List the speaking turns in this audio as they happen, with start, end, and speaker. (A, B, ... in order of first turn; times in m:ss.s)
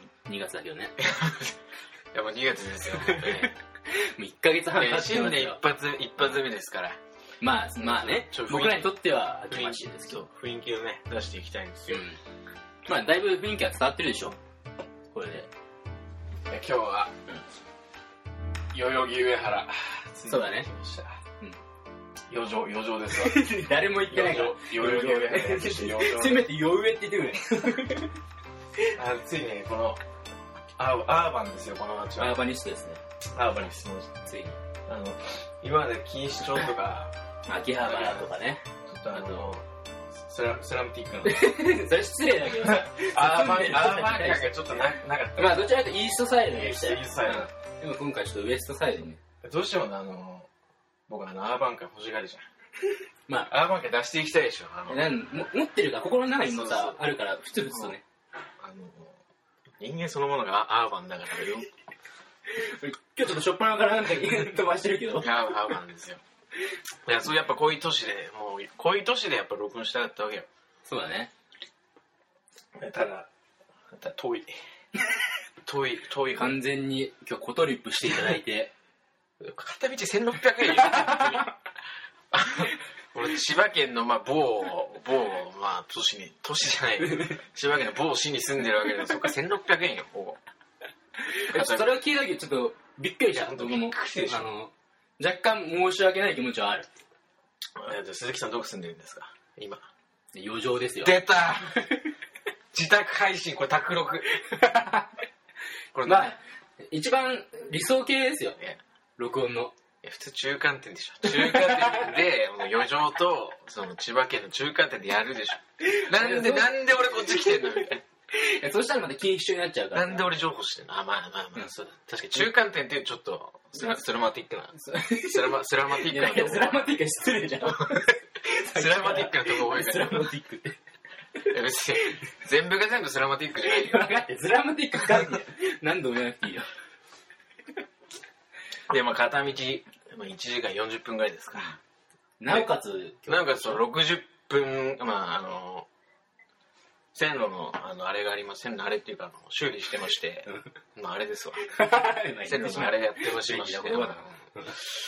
0:00.2-0:01.0 A
0:01.0-0:01.6 B
0:02.1-0:03.5 B
0:02.9-0:05.6 A
0:04.7-0:07.0 B
0:07.4-0:10.2 A
0:07.8-0:09.0 B
0:09.5-0:12.0 B
0:11.9-0:12.2 A
0:12.8-0:14.4 A
0:15.1-0:15.5 A
0:16.5-0:17.2 B
0:18.7-0:21.2 B
0:20.3-0:20.7 A
0:22.3-0:23.4 B
0:23.1-0:28.2 A
0:24.1-0:26.5 B
0:28.9-0:30.0 B
0:30.8-0:32.4 B
0:32.2-0:33.0 A
0:33.3-0:34.3 B
0:34.3-0:34.6 A
0:34.9-0:37.1 B
0:37.5-0:39.5 A
0:37.8-0:38.3 B
0:38.8-0:41.5 B
0:41.2-0:44.6 A
0:42.7-0:45.8 B
0:45.4-0:49.2 A
0:46.5-0:47.5 B
0:49.4-0:50.5 B
0:51.1-0:52.4 B
0:53.5-0:55.1 B
0:54.9-0:58.0 A
0:56.4-0:57.0 B
0:58.6-0:59.2 B
0:59.8-1:01.7 B
1:02.5-1:05.3 A
1:05.2-1:06.2 B
1:07.0-1:10.5 B
1:10.8-1:11.3 A
1:12.7-1:13.3 B
1:13.9-1:14.5 B
1:15.6-1:16.6 B
1:16.4-1:18.7 A
1:19.4-1:21.5 B
1:21.0-1:21.3 A
1:22.3-1:30.4 B
1:31.2-1:36.9 A
1:31.5-1:31.9 B
1:33.4-1:34.5 B
1:37.8-1:39.8 B
1:40.3-1:41.2 A
1:41.0-1:41.9 B
1:42.7-1:44.3 B
1:44.4-1:45.1 A
1:45.9-1:46.3 B
1:46.0-1:48.6 A
1:49.2-1:49.7 A
1:50.0-1:58.0 B
1:51.3-1:52.1 A
1:55.8-1:56.7 A
1:58.3-2:00.3 A
1:59.9-2:06.9 B
2:04.7-2:10.8 A
2:07.6-2:08.1 B
2:08.6-2:10.3 B
2:11.4-2:14.1 B
2:13.6-2:16.7 A
2:18.9-2:21.8 B
2:22.4-2:23.8 A
2:23.3-2:25.9 B
2:27.1-2:31.6 B
2:31.7-2:34.8 A
2:32.4-2:34.3 B